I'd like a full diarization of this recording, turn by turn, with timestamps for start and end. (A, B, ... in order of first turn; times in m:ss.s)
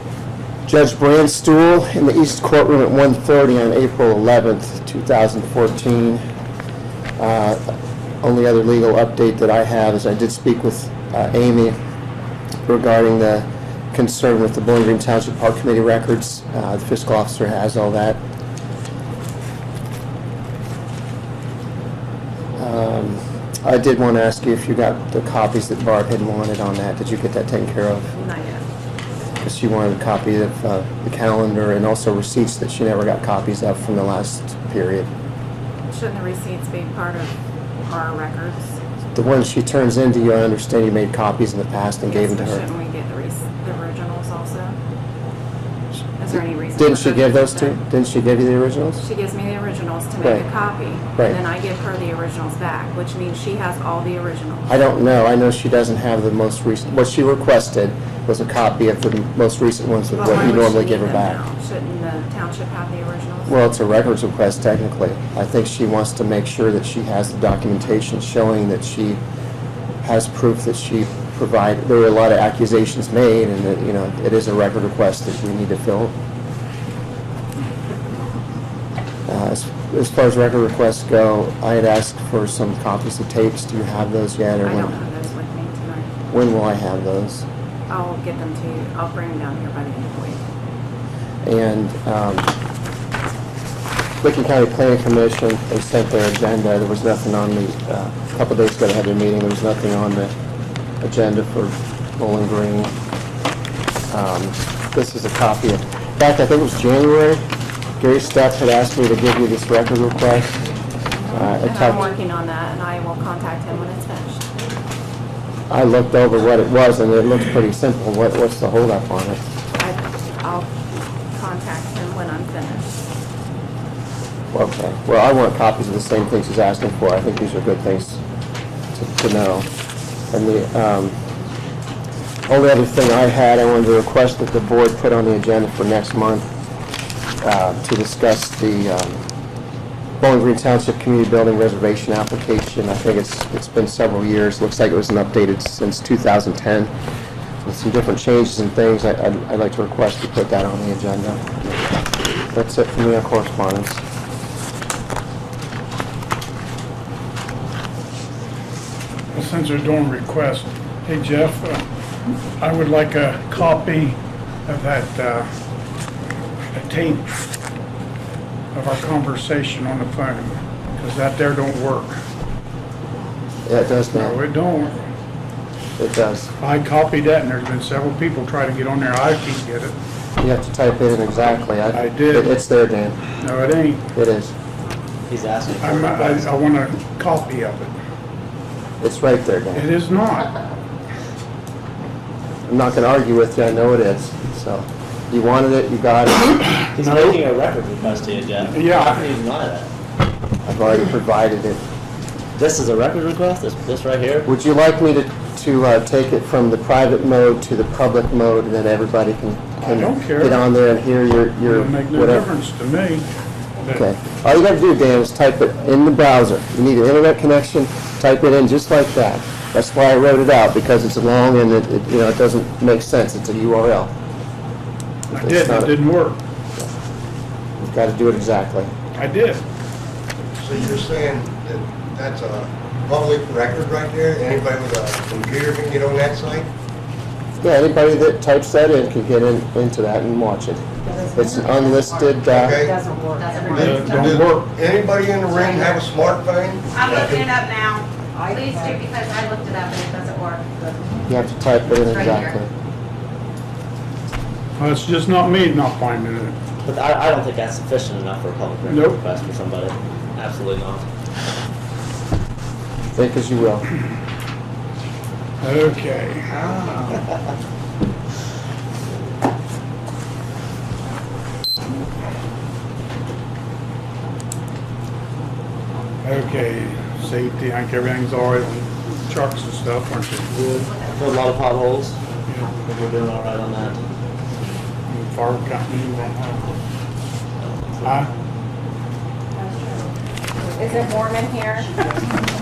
0:00.7-0:06.2 A
0:07.2-0:07.6 A
0:08.2-0:11.8 A
0:12.7-0:18.2 A
0:22.6-0:28.1 A
0:28.1-0:28.6 B
0:29.4-0:35.1 A
0:35.9-0:37.3 B
0:37.9-0:38.8 B
0:39.2-0:42.6 A
0:42.1-0:44.8 B
0:46.2-0:47.8 B
0:46.8-0:49.0 A
0:49.0-0:54.8 B
0:50.2-0:50.4 A
0:54.7-1:01.4 A
1:00.1-1:03.6 B
1:03.5-1:09.2 A
1:10.0-1:16.1 A
1:19.3-1:25.0 A
1:24.6-1:26.1 B
1:26.3-1:27.4 A
1:27.9-1:30.4 B
1:31.4-1:32.5 A
1:34.2-1:40.3 A
1:41.0-1:42.9 A
1:44.1-1:47.4 A
1:48.0-1:50.6 A
1:51.2-1:54.4 B
1:51.3-1:52.1 A
1:55.7-1:59.4 A
1:59.8-2:00.7 B
2:01.3-2:03.0 B
2:04.5-2:08.2 A
2:09.0-2:09.7 A
2:10.3-2:11.2 A
2:12.5-2:16.5 A
2:17.4-2:19.2 A
2:20.2-2:26.9 A
2:27.6-2:34.0 A
2:39.3-2:41.9 C
2:42.6-2:45.5 C
2:46.7-2:47.3 C
2:48.7-2:52.2 C
2:53.7-2:54.4 A
2:54.1-2:55.0 C
2:56.0-2:56.5 A
2:56.6-3:00.0 C
3:00.4-3:03.2 A
3:01.9-3:02.6 C
3:03.4-3:04.0 C
3:04.2-3:04.5 A
3:05.3-3:06.5 D
3:05.8-3:07.9 C
3:09.0-3:09.9 A
3:09.7-3:10.5 C
3:12.7-3:16.7 A
3:17.0-3:19.9 D
3:17.1-3:17.4 C
3:18.7-3:19.2 C
3:20.6-3:21.8 A
3:22.6-3:24.5 D
3:24.5-3:32.5 A
3:29.8-3:30.6 C
3:31.6-3:33.3 C
3:33.9-3:44.1 A
3:45.3-3:46.4 C
3:45.3-3:46.0 A
3:47.8-3:48.9 A
3:49.2-3:49.6 C
3:50.6-3:56.7 E
3:57.6-4:02.8 A
4:01.1-4:04.4 F
4:02.5-4:03.1 E
4:03.6-4:07.6 E
4:03.8-4:04.7 C
4:05.5-4:06.0 F
4:06.9-4:11.1 F
4:07.0-4:07.4 D
4:11.3-4:12.7 A
4:11.9-4:12.6 F
4:14.8-4:16.6 C
4:16.8-4:21.1 D
4:18.9-4:19.2 C
4:23.1-4:23.9 A
4:25.6-4:26.6 C
4:26.6-4:27.2 D
4:36.2-4:40.5 C
4:40.6-4:42.2 D
4:42.5-4:42.8 C
4:42.8-4:44.0 D
4:45.1-4:46.7 C
4:47.6-4:48.2 D
4:49.6-4:50.1 B
4:50.7-4:52.0 B